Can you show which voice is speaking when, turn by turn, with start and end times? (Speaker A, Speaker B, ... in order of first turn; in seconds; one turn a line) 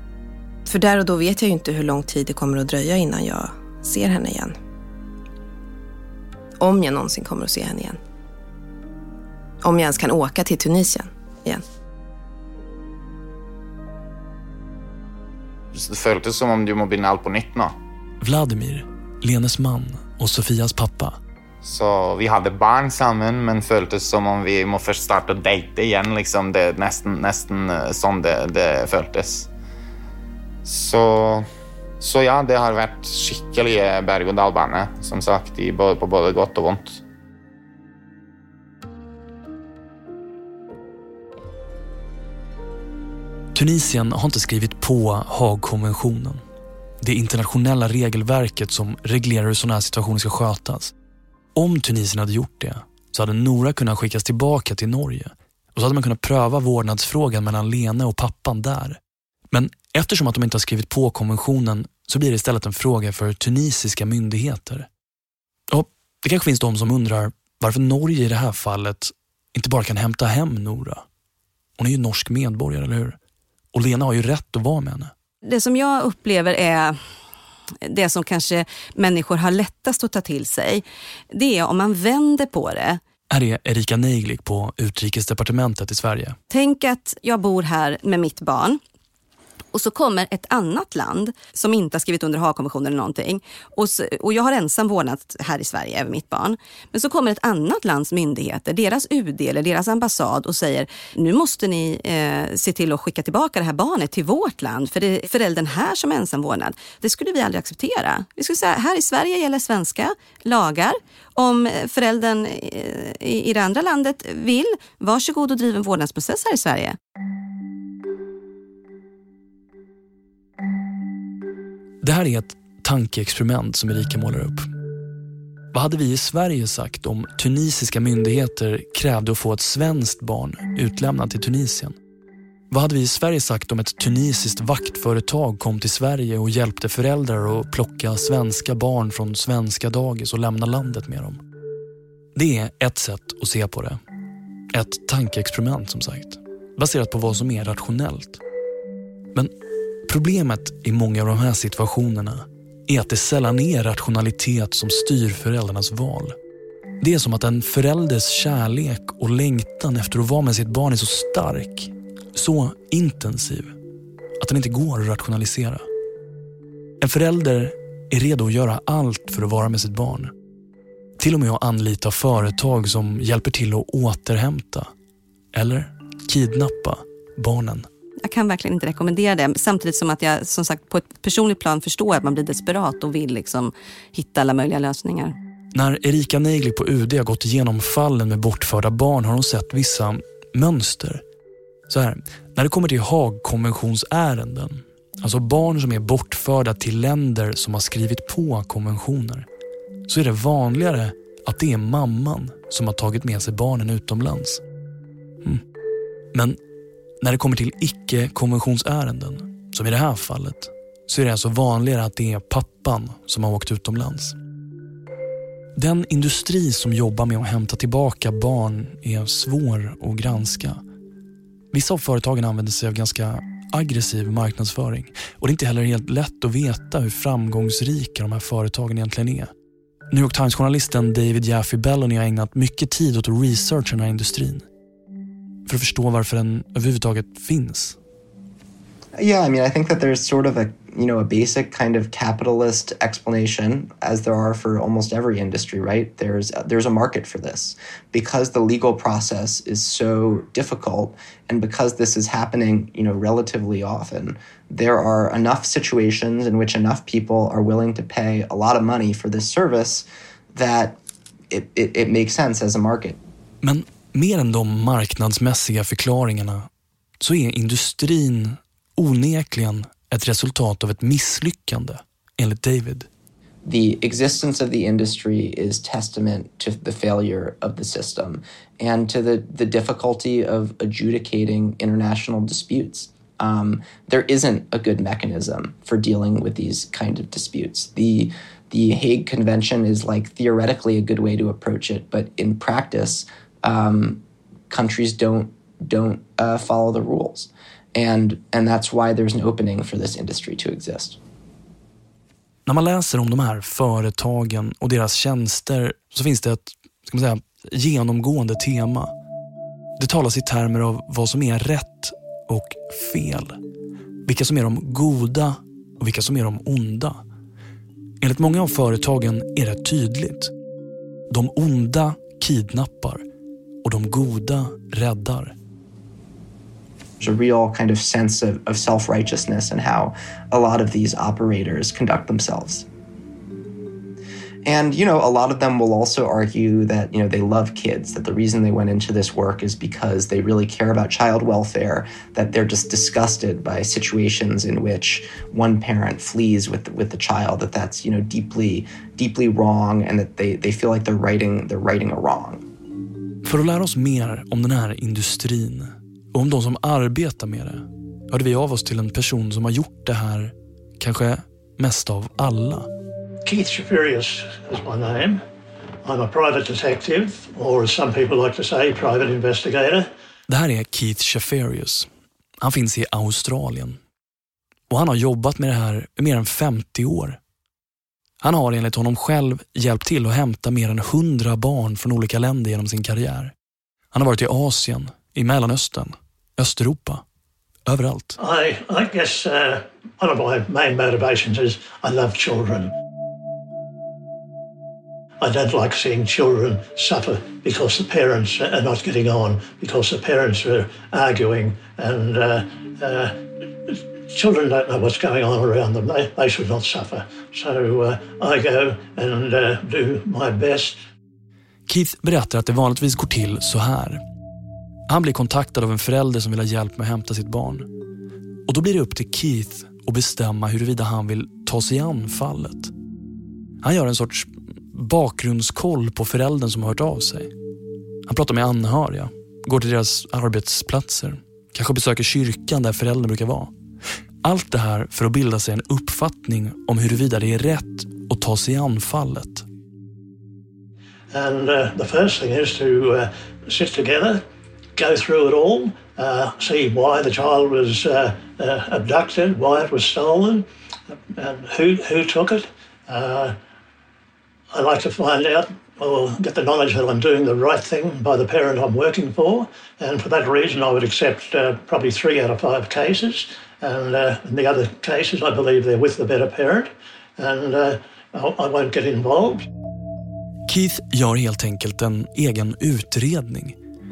Speaker A: 0.7-4.5
Speaker A: 6.6-8.0
Speaker A: 9.6-11.6
Speaker B: 15.7-17.7
Speaker C: 18.2-21.2
Speaker B: 21.6-29.5
Speaker B: 30.6-31.4
Speaker B: 32.0-37.0
Speaker C: 43.5-46.4
Speaker C: 47.0-50.9
Speaker C: 51.5-59.0
Speaker C: 59.5-64.9
Speaker C: 65.7-71.0
Speaker C: 71.8-73.2
Speaker C: 73.7-75.1
Speaker D: 75.4-77.0
Speaker D: 77.8-83.0
Speaker C: 83.3-86.4
Speaker D: 86.5-88.8
Speaker D: 89.7-117.0
Speaker C: 122.0-124.7
Speaker C: 125.7-131.9
Speaker C: 132.7-141.4
Speaker C: 142.3-144.0
Speaker C: 144.7-148.4
Speaker C: 150.1-156.3
Speaker C: 157.0-163.8
Speaker C: 164.4-165.8
Speaker C: 167.0-170.3
Speaker C: 171.2-174.9
Speaker C: 175.5-177.9
Speaker D: 178.2-185.3
Speaker C: 185.7-191.2
Speaker C: 191.9-199.4
Speaker C: 200.1-204.6
Speaker C: 207.2-214.4
Speaker C: 215.8-220.8
Speaker C: 221.7-229.5
Speaker C: 230.1-234.6
Speaker C: 235.7-238.0
Speaker E: 239.2-261.0
Speaker E: 261.5-263.2
Speaker C: 263.6-266.7
Speaker C: 267.2-273.1
Speaker E: 273.6-301.2
Speaker C: 302.7-309.1
Speaker C: 310.0-313.6
Speaker C: 314.3-317.2
Speaker C: 318.2-320.5
Speaker C: 321.3-323.2
Speaker C: 323.8-325.5
Speaker E: 327.2-332.9
Speaker E: 334.6-352.6
Speaker C: 353.4-362.9
Speaker F: 363.4-365.4
Speaker F: 366.0-370.1
Speaker C: 370.5-372.1
Speaker C: 372.6-374.0
Speaker C: 374.9-377.4
Speaker C: 378.4-383.5
Speaker C: 384.1-387.2
Speaker C: 387.9-388.4
Speaker F: 388.4-392.9
Speaker F: 395.4-411.0
Speaker C: 411.9-414.2
Speaker C: 415.1-417.9
Speaker C: 418.7-422.9
Speaker C: 423.8-427.5
Speaker C: 428.3-433.7
Speaker C: 434.4-439.6
Speaker F: 441.3-444.4
Speaker F: 444.9-450.7
Speaker F: 451.3-453.6
Speaker F: 454.7-469.6
Speaker C: 470.7-473.8